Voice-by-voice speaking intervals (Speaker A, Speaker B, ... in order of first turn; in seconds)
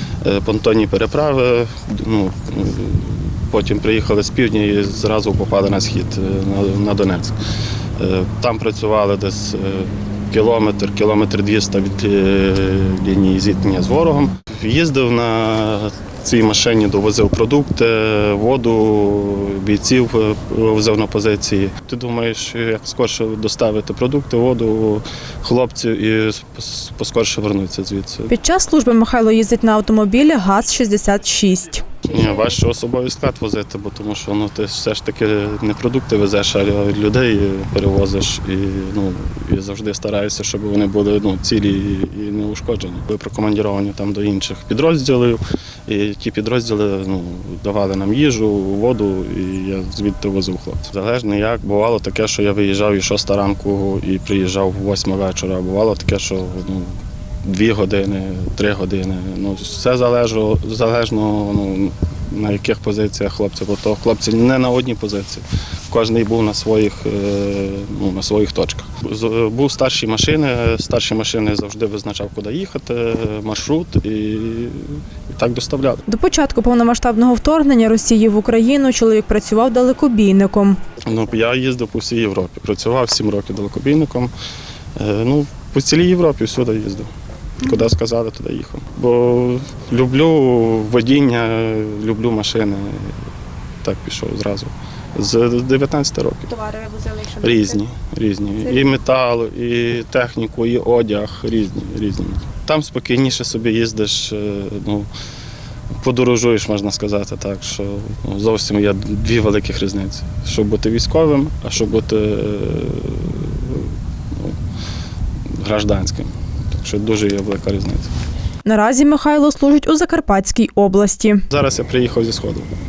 Speaker A: 0.2-7.4, 8.0-28.3, 32.0-76.0, 81.0-84.3, 85.0-93.2, 93.8-96.5, 97.4-105.1, 106.0-114.6, 115.5-118.1, 121.5-122.7
Speaker B: 28.3-32.2, 76.1-80.8, 96.6-97.6, 118.7-121.5